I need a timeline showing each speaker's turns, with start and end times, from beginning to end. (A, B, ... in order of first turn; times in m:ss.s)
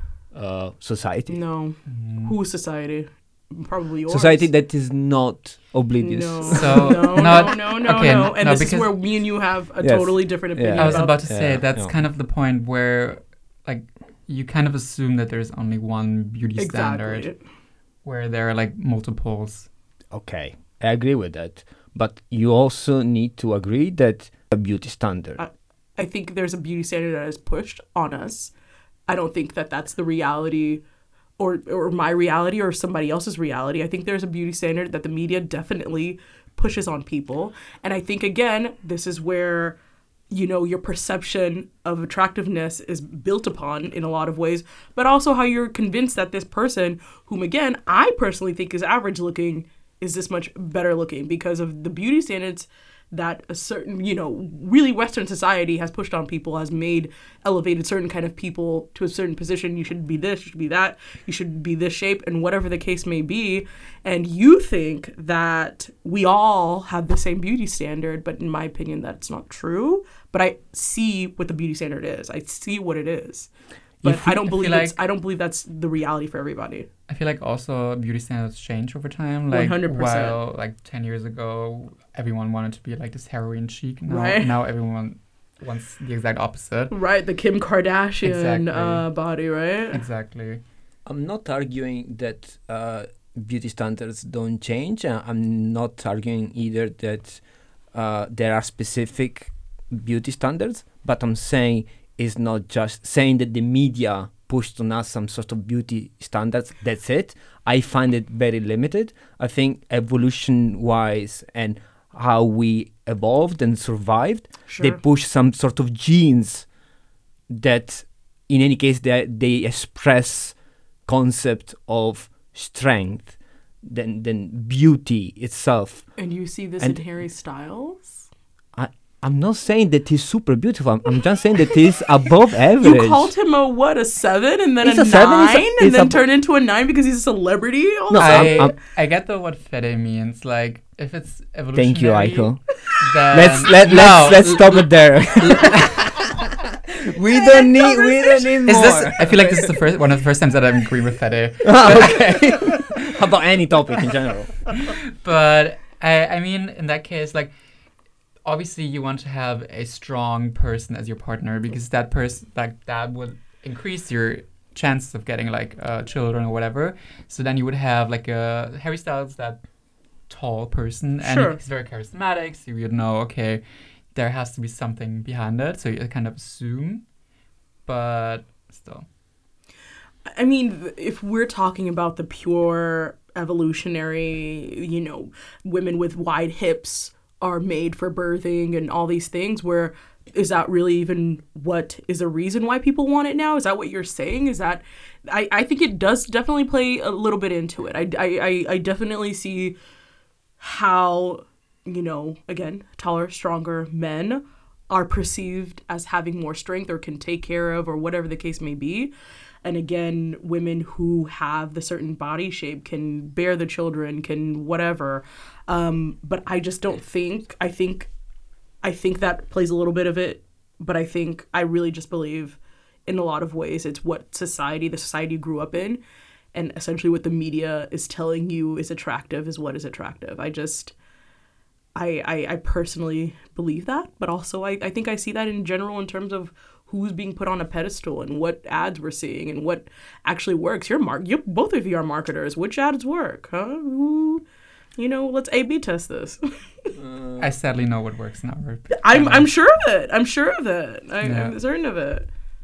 0:00.3-0:01.4 A
0:01.3-0:04.5 B
0:01.9-0:02.4 C
0:04.1-0:07.4 A
0:06.0-0:11.2 B
0:06.5-0:08.9 C
0:09.8-0:11.9 A
0:10.8-0:17.3 C
0:16.6-0:17.4 B
0:18.0-0:19.7 C
0:20.1-0:25.4 A
0:25.4-0:28.5 B
0:29.1-0:30.8 B
0:31.4-0:39.8 B
0:40.3-1:13.5 B
1:14.0-1:16.9 B
1:14.0-1:15.0 C
1:17.1-1:26.9 C
1:19.5-1:20.4 B
1:24.1-1:24.5 B
1:26.9-1:30.0 B
1:28.2-1:29.0 C
1:29.9-1:30.6 C
1:31.0-1:37.4 A
1:37.9-1:56.6 A
1:54.7-1:55.0 B
1:57.5-2:00.5 A
2:01.1-2:06.0 A
2:06.2-2:08.2 B
2:08.7-2:13.3 A
2:12.8-2:18.7 B
2:14.8-2:16.2 A
2:18.1-2:18.7 A
2:18.2-2:26.1 C
2:21.7-2:22.6 A
2:23.3-2:29.7 A
2:27.3-2:28.7 B
2:28.6-2:32.7 C
2:31.6-2:34.5 A
2:34.7-2:37.5 C
2:38.4-2:49.6 C
2:50.3-2:53.6 C
2:51.2-2:51.6 B
2:54.1-2:57.0 C
2:57.8-2:59.0 C
3:00.3-3:19.8 B
3:20.6-3:29.1 B
3:29.6-3:38.1 B
3:38.8-3:46.0 B
3:46.5-3:50.9 B
3:51.9-4:04.4 B
4:05.0-4:06.9 B
4:07.0-4:07.4 A
4:07.4-4:09.5 C
4:08.9-4:12.3 B
4:11.2-4:11.6 C